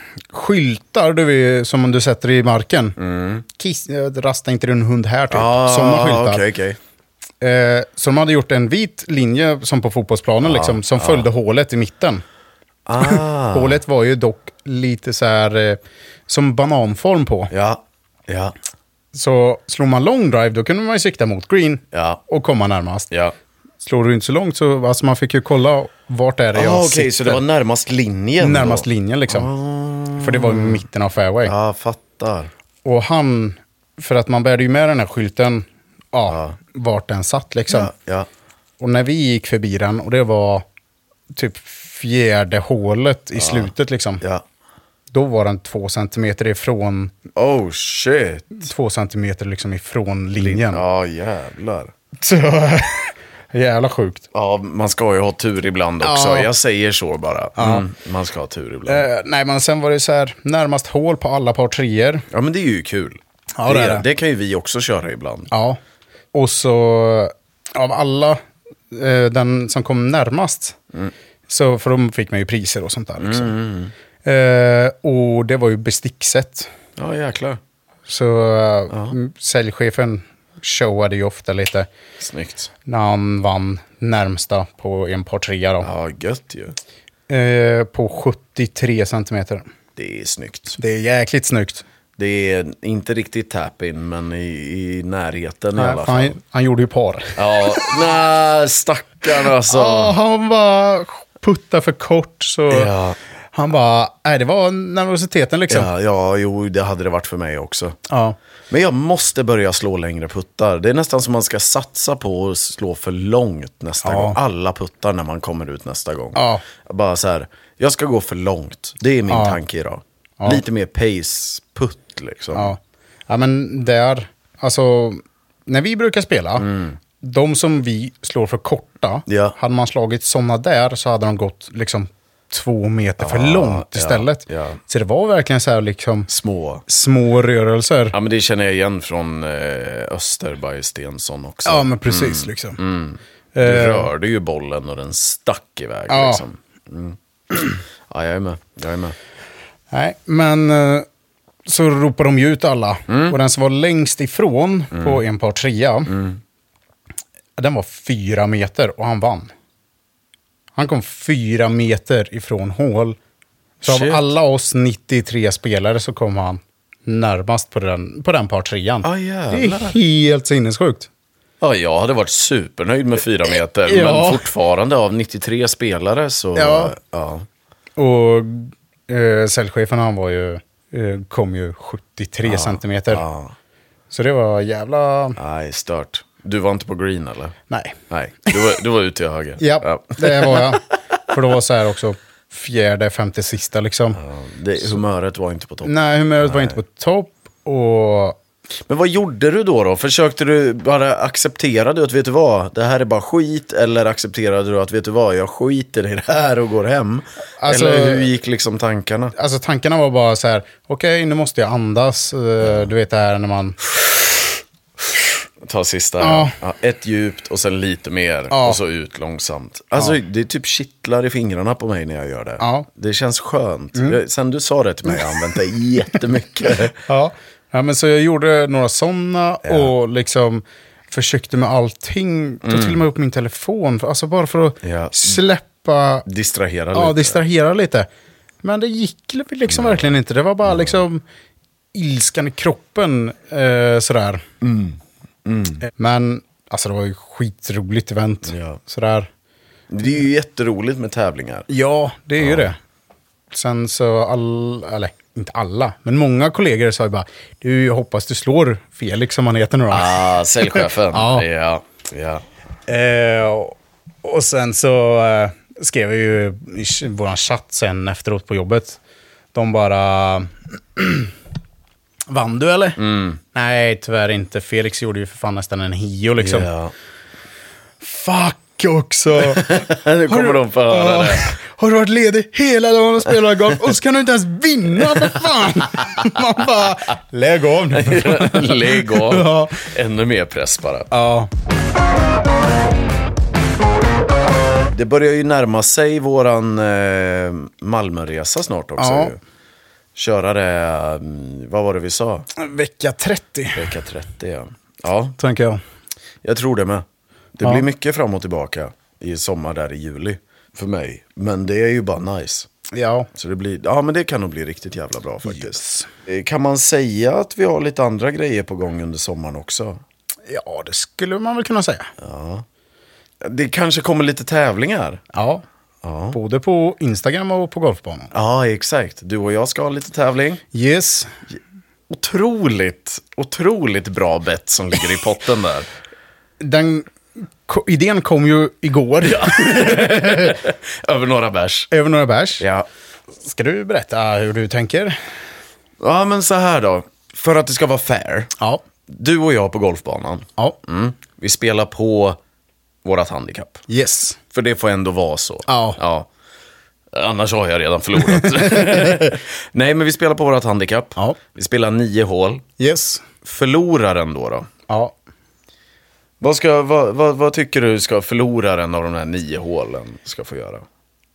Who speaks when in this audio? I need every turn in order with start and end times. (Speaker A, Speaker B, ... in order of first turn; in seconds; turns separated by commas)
Speaker A: 0.3-3.0, Speaker B: 3.0-3.4, Speaker A: 3.5-6.4, Speaker B: 5.3-6.8, Speaker A: 7.4-12.2, Speaker B: 10.4-11.3, Speaker B: 12.8-13.8, Speaker A: 13.0-17.5, Speaker B: 17.5-18.5, Speaker A: 19.1-23.1, Speaker B: 21.9-22.2, Speaker A: 23.8-27.4, Speaker B: 26.5-30.8, Speaker A: 28.4-29.5, Speaker A: 30.2-31.5, Speaker B: 31.4-32.5, Speaker A: 32.8-37.9, Speaker B: 36.3-36.5, Speaker B: 37.7-38.3, Speaker A: 38.8-40.6, Speaker A: 41.3-44.2, Speaker B: 43.4-44.4, Speaker A: 45.1-47.1, Speaker B: 47.3-48.6, Speaker A: 48.5-50.8, Speaker B: 50.4-51.9, Speaker A: 52.2-54.2, Speaker B: 54.3-59.0, Speaker A: 56.0-56.5, Speaker A: 57.6-57.9, Speaker A: 58.9-62.3, Speaker B: 62.3-65.5, Speaker A: 63.6-64.0, Speaker A: 65.5-65.8, Speaker A: 66.3-68.4, Speaker A: 68.9-70.8, Speaker A: 71.5-73.5, Speaker B: 73.2-73.9, Speaker A: 74.2-76.7, Speaker B: 77.0-77.6, Speaker A: 78.1-81.9, Speaker B: 78.9-79.1, Speaker B: 82.2-82.7, Speaker A: 82.8-85.9, Speaker B: 85.8-86.8, Speaker A: 87.3-89.6, Speaker B: 90.0-90.8, Speaker A: 90.8-91.8, Speaker B: 92.2-96.4, Speaker A: 95.8-98.0, Speaker B: 97.3-100.1, Speaker A: 99.4-102.9, Speaker B: 102.7-103.2, Speaker A: 103.5-105.9, Speaker B: 105.7-108.0, Speaker A: 108.1-108.3, Speaker B: 108.7-122.7, Speaker A: 114.0-114.4, Speaker A: 116.3-116.6, Speaker A: 119.3-119.6, Speaker A: 122.5-136.3, Speaker B: 126.6-127.0, Speaker B: 129.3-129.5, Speaker B: 133.2-134.8, Speaker B: 136.3-136.8, Speaker A: 136.9-138.2, Speaker B: 138.1-149.2, Speaker A: 141.6-142.8, Speaker A: 143.5-144.1, Speaker A: 146.1-146.4, Speaker A: 149.9-151.1, Speaker A: 151.7-156.1, Speaker B: 153.1-153.4, Speaker B: 154.9-155.2, Speaker B: 156.1-156.4, Speaker A: 157.6-159.5, Speaker A: 160.8-163.2, Speaker A: 163.8-171.1, Speaker B: 163.8-164.3, Speaker B: 169.0-170.0, Speaker B: 171.6-177.5, Speaker A: 173.8-174.5, Speaker A: 176.5-176.9, Speaker A: 178.0-183.2, Speaker B: 182.4-183.5, Speaker A: 184.1-185.4, Speaker B: 185.4-187.6, Speaker A: 187.7-188.7, Speaker B: 188.1-190.8, Speaker A: 189.6-194.2, Speaker B: 194.2-196.8, Speaker A: 195.8-198.4, Speaker B: 198.9-209.3, Speaker A: 207.6-208.3, Speaker A: 209.3-213.8, Speaker B: 215.6-227.0, Speaker A: 216.2-216.5, Speaker A: 218.5-218.8, Speaker A: 222.6-222.9, Speaker A: 227.1-236.2, Speaker B: 229.6-229.9, Speaker B: 232.6-233.0, Speaker B: 234.8-235.4, Speaker B: 236.2-237.4, Speaker A: 236.9-238.1, Speaker A: 238.6-241.2, Speaker B: 239.7-240.1, Speaker B: 240.6-241.0, Speaker A: 241.9-244.4, Speaker B: 244.6-245.8, Speaker A: 245.9-249.3, Speaker B: 248.4-248.8, Speaker B: 249.9-251.7, Speaker A: 251.7-252.8, Speaker B: 252.4-252.7, Speaker A: 253.5-261.4, Speaker B: 259.9-262.4, Speaker A: 262.9-269.0, Speaker A: 269.5-271.3, Speaker A: 272.3-273.0, Speaker B: 273.0-273.4, Speaker A: 273.5-276.7, Speaker B: 276.4-276.9, Speaker A: 278.0-289.9, Speaker B: 279.4-281.5, Speaker B: 285.0-285.3, Speaker B: 287.9-291.1, Speaker A: 291.1-291.5, Speaker B: 294.9-299.4, Speaker A: 299.0-299.3, Speaker B: 300.1-302.5, Speaker A: 302.5-303.9, Speaker B: 303.7-305.4, Speaker A: 305.4-305.8, Speaker B: 306.4-307.0, Speaker B: 307.6-312.7, Speaker A: 312.9-313.3, Speaker B: 313.3-320.0, Speaker A: 315.4-316.1, Speaker A: 320.5-322.1, Speaker B: 322.2-322.6, Speaker B: 323.4-325.2, Speaker A: 325.3-325.6, Speaker B: 326.0-326.4, Speaker A: 326.3-328.3, Speaker B: 328.3-330.6, Speaker A: 330.7-331.3, Speaker B: 332.1-335.9, Speaker A: 336.6-337.1, Speaker A: 337.6-340.6, Speaker B: 339.2-341.9, Speaker A: 341.9-342.6, Speaker B: 342.6-342.9, Speaker A: 343.4-345.2, Speaker B: 346.0-348.5, Speaker B: 349.1-352.4, Speaker B: 353.0-353.8, Speaker A: 353.9-354.4, Speaker B: 354.5-356.3, Speaker A: 355.7-356.0, Speaker B: 357.1-362.6, Speaker A: 358.2-359.3, Speaker A: 362.8-363.2, Speaker B: 363.4-364.7, Speaker A: 364.9-365.1, Speaker B: 366.4-370.8